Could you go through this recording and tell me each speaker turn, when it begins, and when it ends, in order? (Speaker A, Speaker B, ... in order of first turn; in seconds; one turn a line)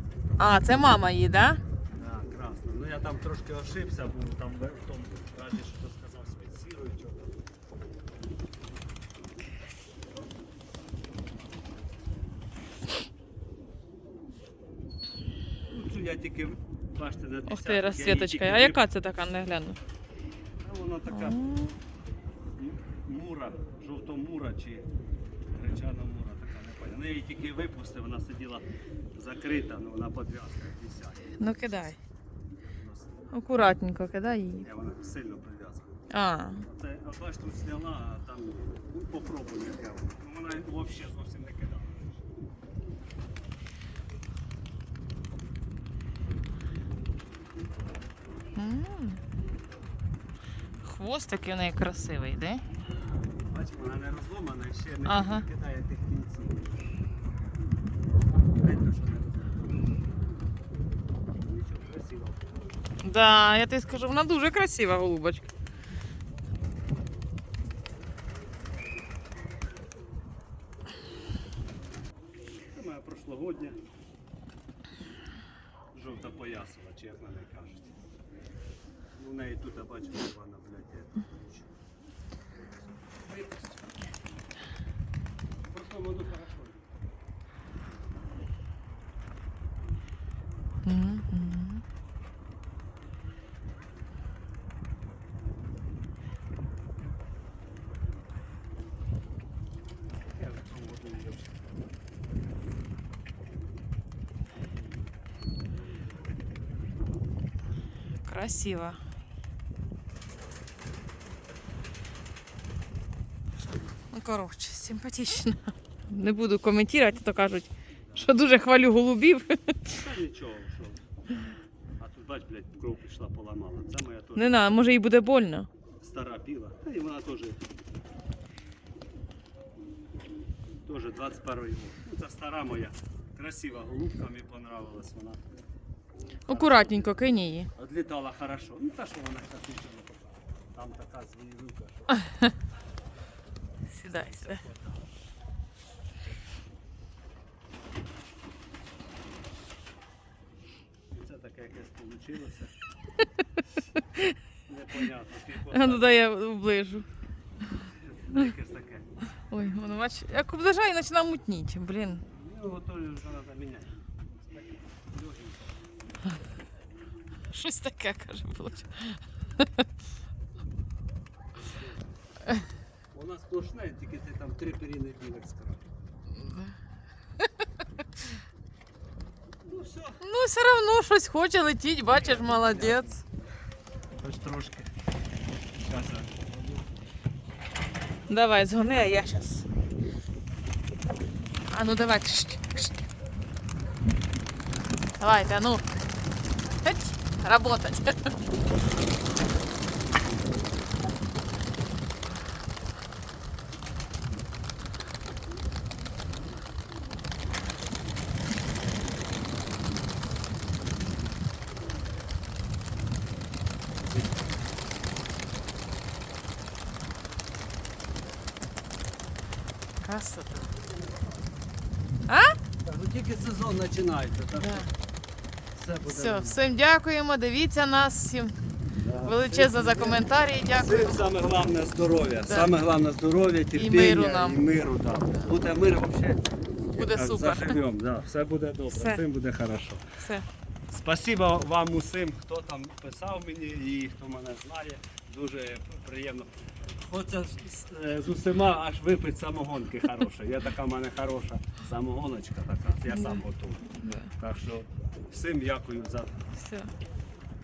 Speaker A: 0.4-1.6
Speaker B: 2.0-7.4
Speaker B: 15.7-18.8
Speaker A: 17.5-19.8
Speaker B: 20.6-21.4
Speaker A: 21.1-21.8
Speaker B: 22.6-24.9
Speaker B: 25.5-31.9
Speaker A: 31.4-32.0
Speaker B: 32.7-33.3
Speaker A: 33.3-34.6
Speaker B: 34.6-36.0
Speaker A: 36.1-36.6
Speaker B: 36.6-42.2
Speaker A: 48.5-49.2
Speaker A: 50.8-52.6
Speaker B: 53.5-56.8
Speaker A: 55.0-55.5
Speaker B: 58.6-59.9
Speaker B: 61.4-62.6
Speaker A: 63.0-65.5
Speaker B: 72.7-73.8
Speaker B: 75.9-77.9
Speaker B: 79.2-81.7
Speaker B: 83.1-83.9
Speaker B: 85.7-86.9
Speaker A: 90.8-91.8
Speaker B: 100.3-101.9
Speaker A: 108.2-109.0
Speaker A: 114.1-120.0
Speaker B: 119.9-121.0
Speaker B: 122.0-124.6
Speaker A: 124.3-125.7
Speaker B: 126.0-127.6
Speaker B: 130.8-135.4
Speaker B: 136.5-137.2
Speaker A: 136.5-137.7
Speaker B: 137.8-142.3
Speaker A: 143.9-144.6
Speaker B: 144.0-145.1
Speaker B: 151.1-152.7
Speaker B: 154.7-156.2
Speaker A: 155.7-157.0
Speaker B: 158.0-159.1
Speaker A: 159.5-162.2
Speaker B: 162.3-165.8
Speaker A: 167.5-169.8
Speaker B: 171.6-172.2
Speaker B: 173.1-175.9
Speaker A: 176.4-176.7
Speaker B: 179.6-180.2
Speaker A: 180.2-183.1
Speaker B: 182.1-183.2
Speaker B: 184.2-184.9
Speaker B: 185.8-186.9
Speaker A: 188.3-189.6
Speaker A: 191.7-192.9
Speaker A: 195.2-195.8
Speaker A: 196.8-198.3
Speaker A: 220.0-220.7
Speaker B: 220.7-221.3
Speaker A: 222.3-222.5
Speaker B: 222.8-224.9
Speaker A: 224.6-224.9
Speaker B: 225.7-226.7
Speaker A: 226.1-228.6
Speaker B: 229.0-240.0
Speaker A: 229.2-231.3
Speaker A: 233.7-234.6
Speaker A: 236.9-237.7
Speaker A: 238.9-239.2
Speaker A: 240.2-240.4
Speaker B: 240.9-256.5
Speaker A: 253.1-254.3
Speaker A: 256.6-256.9